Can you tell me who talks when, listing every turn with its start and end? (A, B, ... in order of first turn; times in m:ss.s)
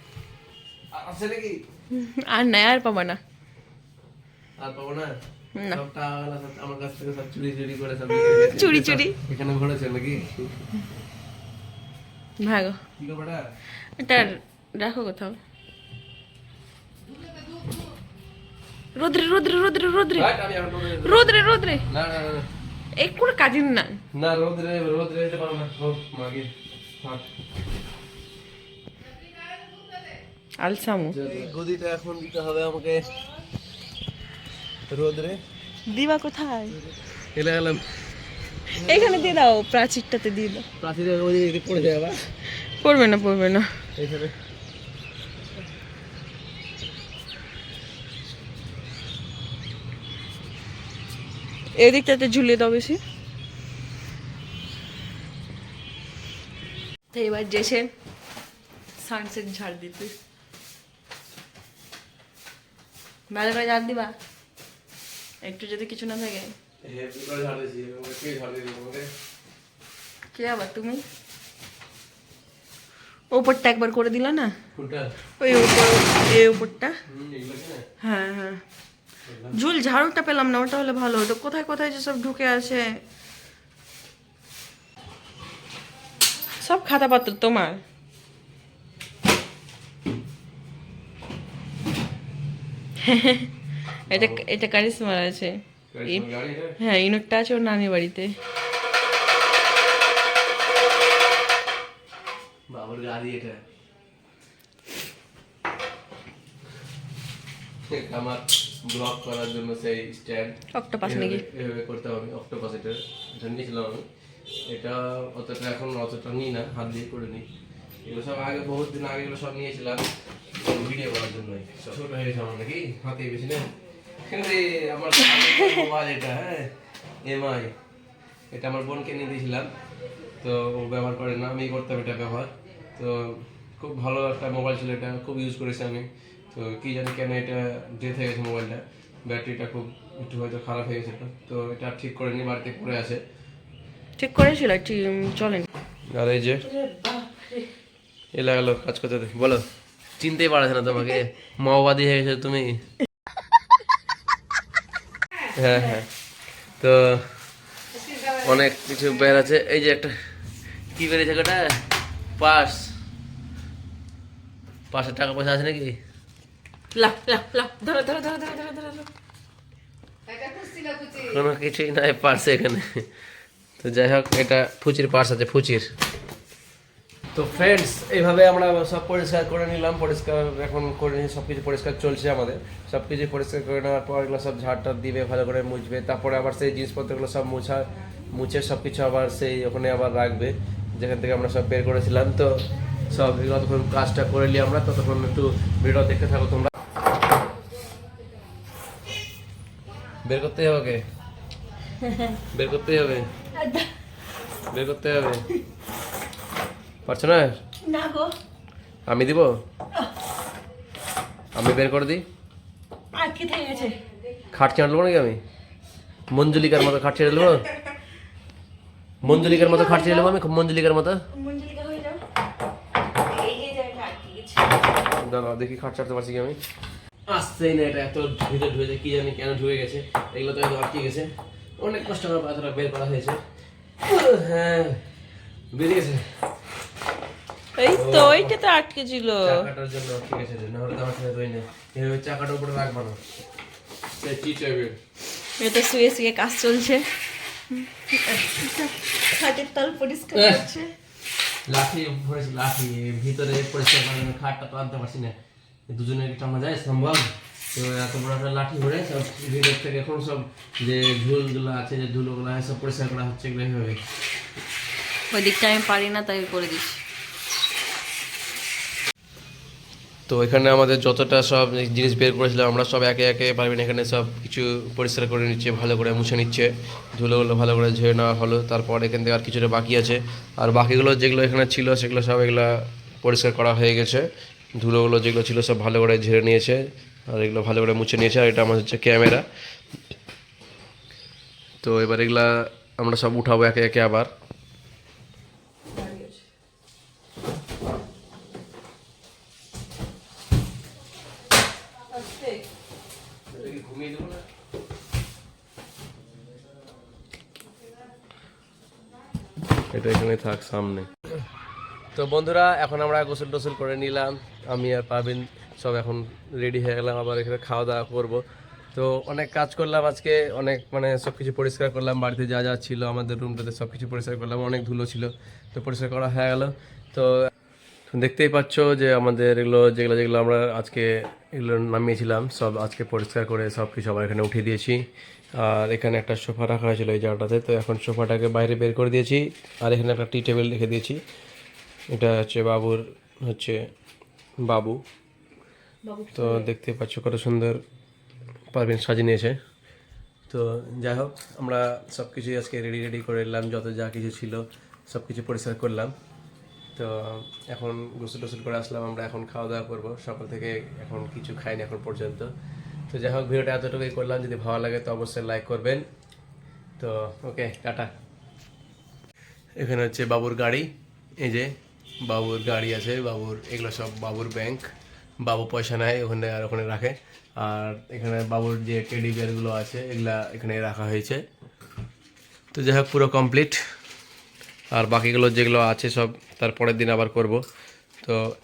0:00.9-0:01.6 A
0:01.9-0:03.2 B
0:04.6-0:05.1 A
0:05.6-0:05.8 B
0:05.7-0:10.7 A
0:08.1-0:09.2 B
0:12.4-0:12.8 B
0:13.0-0:13.4 A
0:14.0-0:15.4 B
0:18.9-0:20.3 B
0:20.2-0:22.5 A
0:20.9-0:21.8 B
0:22.9-0:24.0 B
0:24.1-0:27.2 A
0:30.6-0:31.2 B
0:31.1-0:33.1 A
0:34.9-0:35.4 A
0:35.8-0:36.8 B
0:36.8-0:37.8 A
0:38.7-0:40.6 B
0:38.7-0:39.3 A
0:40.8-0:42.3 A
0:42.8-0:43.7 B
0:44.0-0:44.3 A
0:51.8-0:53.0 B
0:57.1-0:57.9 B
0:59.0-1:00.1 B
1:03.3-1:04.1 B
1:05.4-1:06.5 B
1:06.8-1:09.1 A
1:10.3-1:11.0 B
1:13.3-1:14.5 B
1:14.7-1:15.1 A
1:15.4-1:17.0 B
1:17.0-1:17.9 A
1:18.0-1:18.6 B
1:19.2-1:19.6 A
1:19.5-1:23.0 B
1:26.6-1:27.8 B
1:33.0-1:33.5 B
1:34.1-1:34.4 A
1:34.1-1:36.2 B
1:35.9-1:36.8 A
1:36.8-1:38.4 B
1:42.7-1:43.6 A
1:47.9-1:54.1 A
1:50.7-1:51.4 B
1:54.6-1:57.5 A
1:58.0-2:00.0 A
2:00.6-2:03.7 A
2:04.2-2:06.7 A
2:07.2-2:07.7 A
2:08.5-2:09.7 A
2:10.4-2:23.2 A
2:24.2-2:25.7 B
2:26.1-2:26.6 A
2:26.6-2:27.7 B
2:28.3-2:29.6 A
2:30.2-2:32.8 A
2:35.5-2:36.1 A
2:36.8-2:37.3 A
2:38.2-2:40.2 A
2:40.9-2:41.8 A
2:42.4-2:42.9 A
2:44.9-2:46.0 A
2:46.9-2:49.1 B
2:50.4-2:50.9 B
2:51.1-2:53.1 A
2:53.8-2:55.9 A
2:57.3-3:16.7 A
3:20.2-3:21.0 A
3:22.0-3:22.4 B
3:22.5-3:23.3 A
3:23.6-3:23.9 B
3:24.7-3:25.4 A
3:27.0-3:27.5 A
3:27.8-3:28.3 B
3:29.1-3:29.5 A
3:31.5-3:32.2 A
3:33.1-3:34.0 B
3:34.5-3:35.4 A
3:36.3-3:37.7 A
3:39.2-3:41.2 A
3:39.2-3:40.3 B
3:41.3-3:42.2 B
3:43.1-3:44.8 B
3:45.0-3:46.6 A
3:47.3-3:53.4 A
3:54.0-3:55.0 A
3:55.7-3:56.4 A
3:57.8-3:59.7 B
3:57.9-3:58.5 A
3:59.4-4:03.2 A
4:04.2-4:05.0 A
4:05.6-4:07.1 B
4:07.7-4:10.9 B
4:10.3-4:10.7 A
4:11.7-4:15.4 A
4:15.9-4:24.0 A
4:25.3-4:27.0 B
4:30.3-4:49.4 A
4:51.8-4:54.3 A
4:55.9-4:56.4 B
5:02.1-5:02.6 B
5:03.5-5:04.5 A
5:09.9-5:11.2 A
5:12.1-5:18.4 A
5:18.9-5:27.5 A
5:28.1-5:41.2 A
5:42.1-5:43.8 A
5:44.6-5:45.0 A
5:46.0-5:46.7 B
5:46.3-5:47.8 A
5:48.7-5:49.6 A
5:50.5-5:56.1 A
5:57.0-6:02.5 A
6:03.1-6:06.0 A
6:07.0-6:08.1 A
6:09.8-6:14.9 A
6:15.4-6:21.4 A
6:22.7-6:23.8 A
6:24.9-6:27.6 A